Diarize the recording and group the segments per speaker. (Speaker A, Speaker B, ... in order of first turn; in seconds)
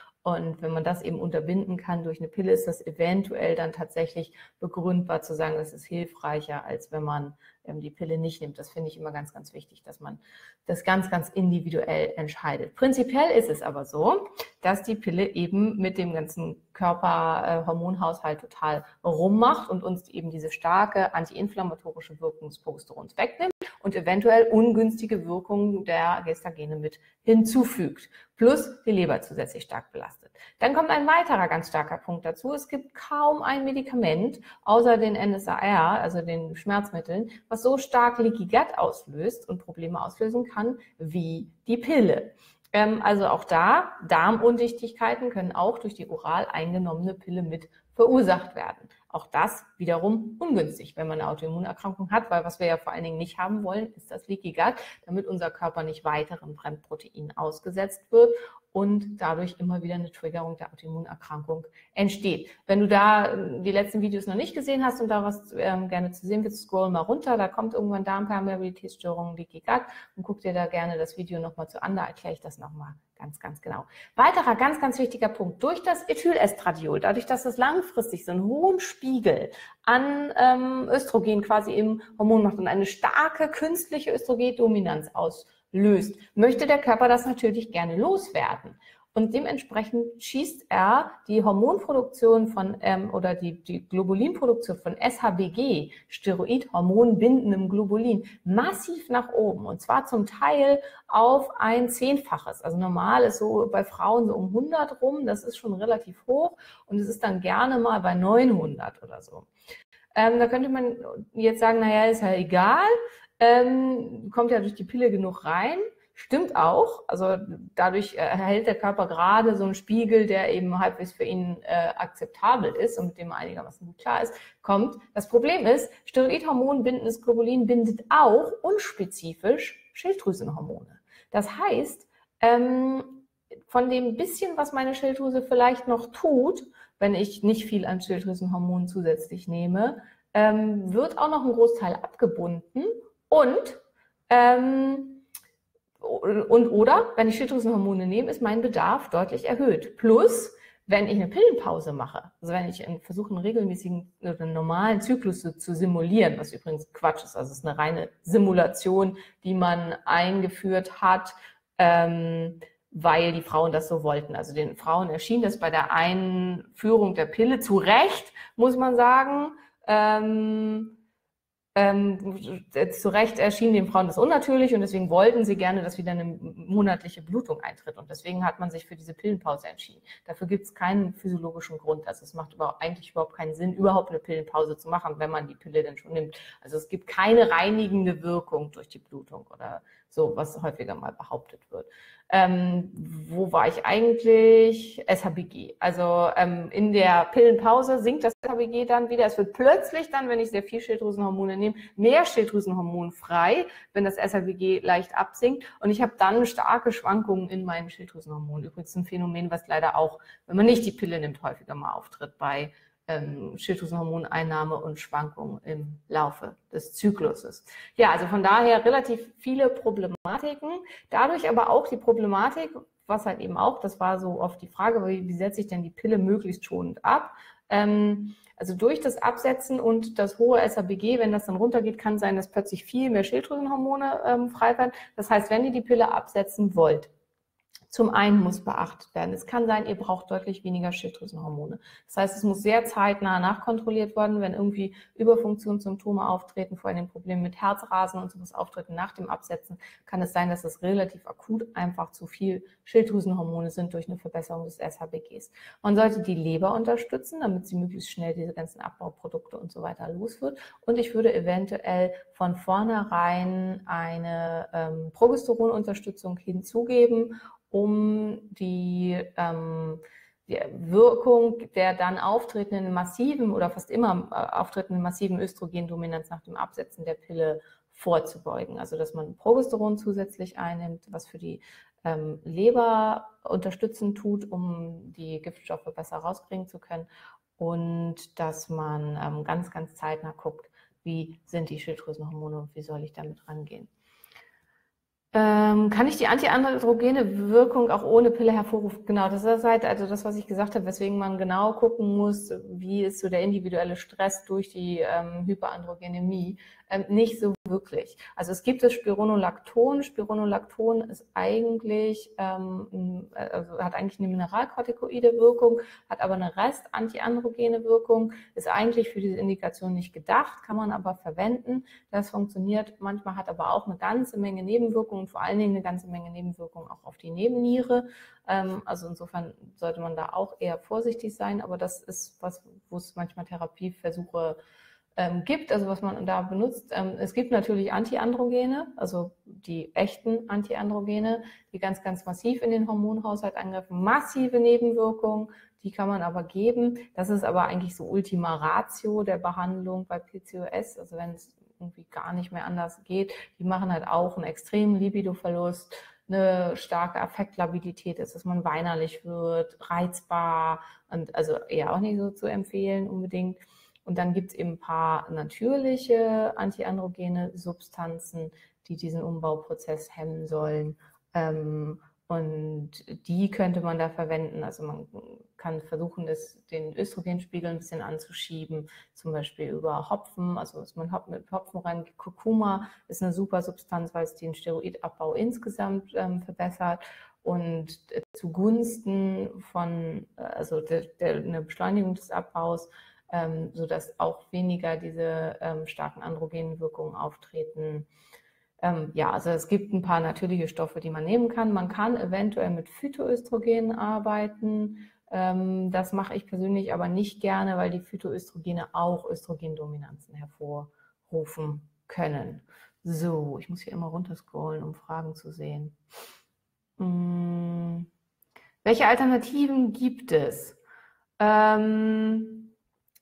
Speaker A: 0.2-109.5, 110.1-145.2, 146.0-171.0, 171.7-237.1, 237.9-293.9, 295.3-334.6, 335.2-398.1, 398.8-416.0, 417.0-418.1, 418.8-420.8, 421.4-422.7